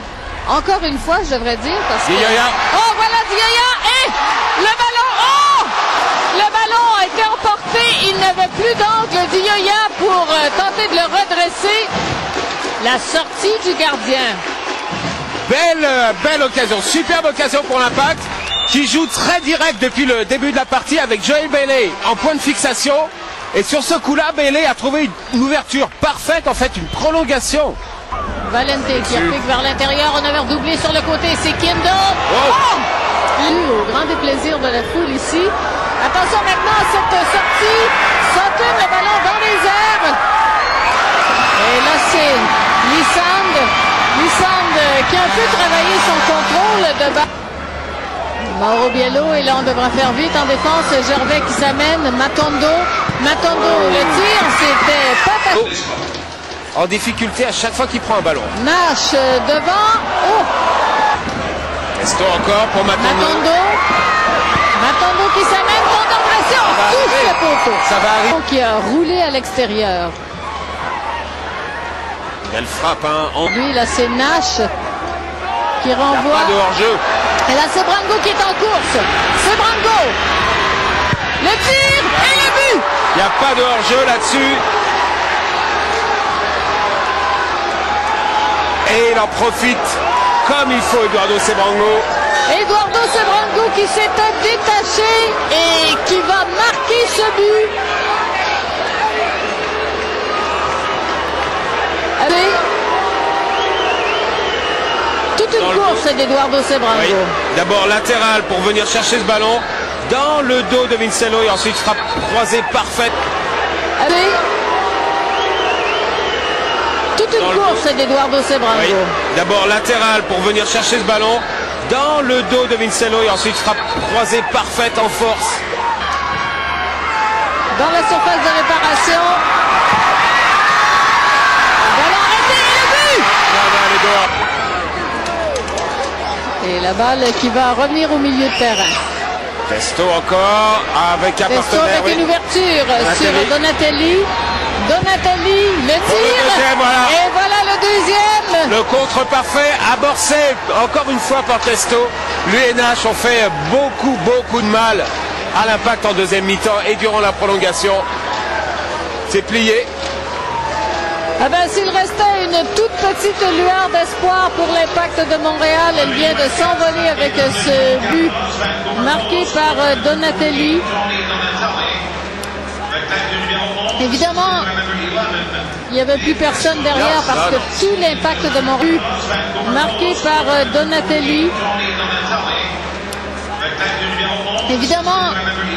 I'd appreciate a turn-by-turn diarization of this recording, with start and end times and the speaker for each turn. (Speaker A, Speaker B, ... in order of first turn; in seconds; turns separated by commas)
Speaker A: 0.5-5.7, Speaker B: 2.0-2.6, Speaker A: 6.3-11.9, Speaker A: 12.8-14.4, Speaker B: 15.5-27.8, Speaker A: 28.4-32.9, Speaker B: 28.8-29.4, Speaker B: 32.3-32.6, Speaker A: 33.4-40.2, Speaker A: 41.6-47.3, Speaker A: 48.4-55.8, Speaker B: 56.8-58.6, Speaker A: 58.5-60.5, Speaker B: 62.0-63.5, Speaker A: 63.0-63.8, Speaker A: 64.8-70.2, Speaker B: 66.6-68.3, Speaker B: 72.4-73.5, Speaker A: 73.5-74.7, Speaker A: 75.8-76.6, Speaker B: 76.1-77.0, Speaker A: 77.5-80.2, Speaker A: 81.4-82.8, Speaker B: 82.1-82.5, Speaker B: 83.1-84.6, Speaker B: 88.9-92.1, Speaker A: 92.5-97.7, Speaker A: 102.2-102.6, Speaker A: 105.3-107.3, Speaker B: 105.5-106.0, Speaker B: 106.9-113.2, Speaker A: 114.0-114.4, Speaker A: 117.2-119.2, Speaker B: 117.4-117.8, Speaker B: 118.7-125.6, Speaker A: 127.7-129.4, Speaker A: 131.8-133.3, Speaker B: 133.5-134.3, Speaker A: 136.6-139.0, Speaker B: 139.7-142.2, Speaker A: 141.5-148.8, Speaker B: 143.0-143.6, Speaker B: 146.0-147.2, Speaker B: 148.7-158.1, Speaker B: 159.3-159.9, Speaker A: 161.4-168.4, Speaker A: 168.9-170.9, Speaker A: 173.9-174.7, Speaker A: 175.9-179.1, Speaker B: 176.9-177.6, Speaker A: 179.6-181.6, Speaker A: 184.6-185.4